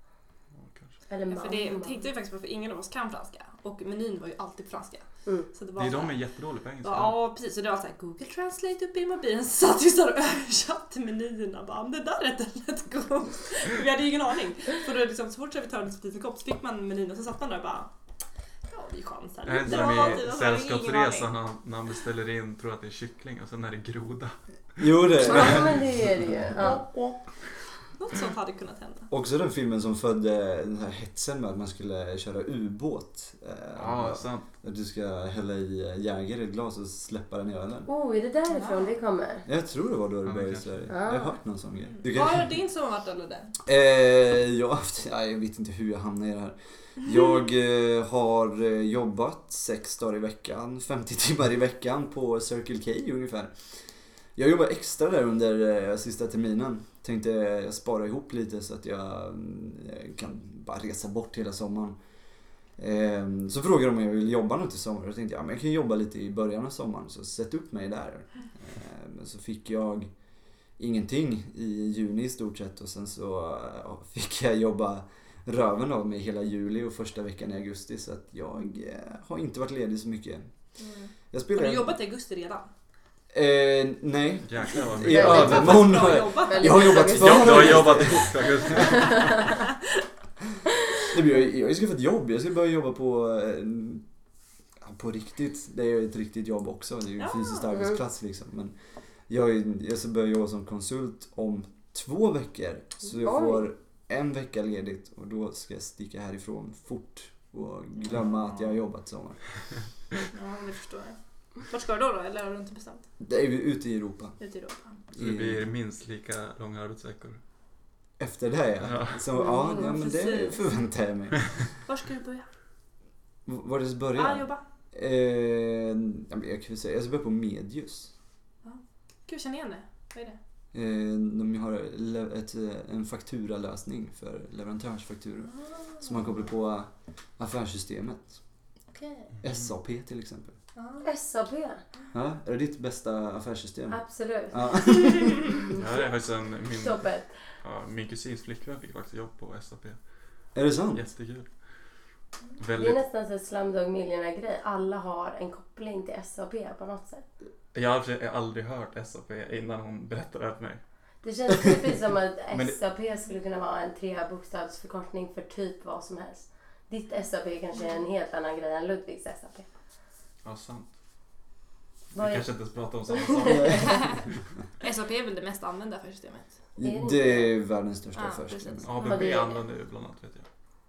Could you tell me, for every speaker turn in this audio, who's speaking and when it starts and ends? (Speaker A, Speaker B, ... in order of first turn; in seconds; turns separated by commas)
Speaker A: 0.5-1.0, Speaker B: 1.1-2.1, Speaker C: 1.3-17.9, Speaker A: 5.8-7.2, Speaker C: 18.7-21.3, Speaker A: 19.4-25.8, Speaker D: 24.8-26.0, Speaker B: 25.2-26.9, Speaker C: 26.6-27.2, Speaker C: 28.0-29.1, Speaker D: 29.1-37.9, Speaker A: 33.8-34.5, Speaker B: 37.9-39.5, Speaker C: 38.5-39.0, Speaker D: 39.5-42.6, Speaker A: 40.2-40.9, Speaker B: 40.9-41.4, Speaker C: 41.9-43.5, Speaker D: 43.6-53.5, Speaker D: 54.4-62.0, Speaker D: 62.8-70.1, Speaker D: 70.8-80.5, Speaker C: 80.8-82.7, Speaker D: 81.3-82.0, Speaker D: 83.3-88.8, Speaker A: 84.4-86.0, Speaker C: 84.8-87.4, Speaker B: 85.1-89.5, Speaker A: 87.1-89.3, Speaker D: 91.1-94.0, Speaker D: 94.8-98.7, Speaker C: 97.2-97.7, Speaker B: 97.7-98.0, Speaker D: 99.3-109.6, Speaker B: 103.0-103.7, Speaker C: 108.3-108.7, Speaker C: 110.3-113.0, Speaker D: 113.2-114.4, Speaker C: 114.4-115.0, Speaker D: 115.2-115.7, Speaker A: 115.2-117.4, Speaker D: 118.2-121.6, Speaker A: 118.8-119.2, Speaker C: 119.3-120.7, Speaker C: 121.8-122.5, Speaker D: 123.5-128.1, Speaker C: 124.2-124.6, Speaker C: 128.6-130.4, Speaker D: 130.7-138.4, Speaker C: 135.7-136.1, Speaker C: 138.9-139.3, Speaker A: 139.3-139.7, Speaker D: 139.4-140.6, Speaker C: 140.8-141.1, Speaker B: 141.0-141.8, Speaker D: 142.1-145.6, Speaker B: 143.9-144.8, Speaker A: 145.7-150.0, Speaker B: 146.7-147.3, Speaker D: 150.5-151.0, Speaker A: 150.9-151.5, Speaker A: 152.6-153.0, Speaker B: 152.8-157.2, Speaker A: 157.7-160.8, Speaker B: 161.2-169.7, Speaker A: 162.5-162.8, Speaker A: 170.4-170.9, Speaker B: 172.1-172.5, Speaker A: 172.1-174.2, Speaker B: 173.1-174.1, Speaker C: 173.8-174.2, Speaker C: 174.8-176.5, Speaker D: 176.8-178.9, Speaker B: 176.8-177.6, Speaker C: 178.1-179.5, Speaker A: 178.8-180.5, Speaker B: 179.0-179.6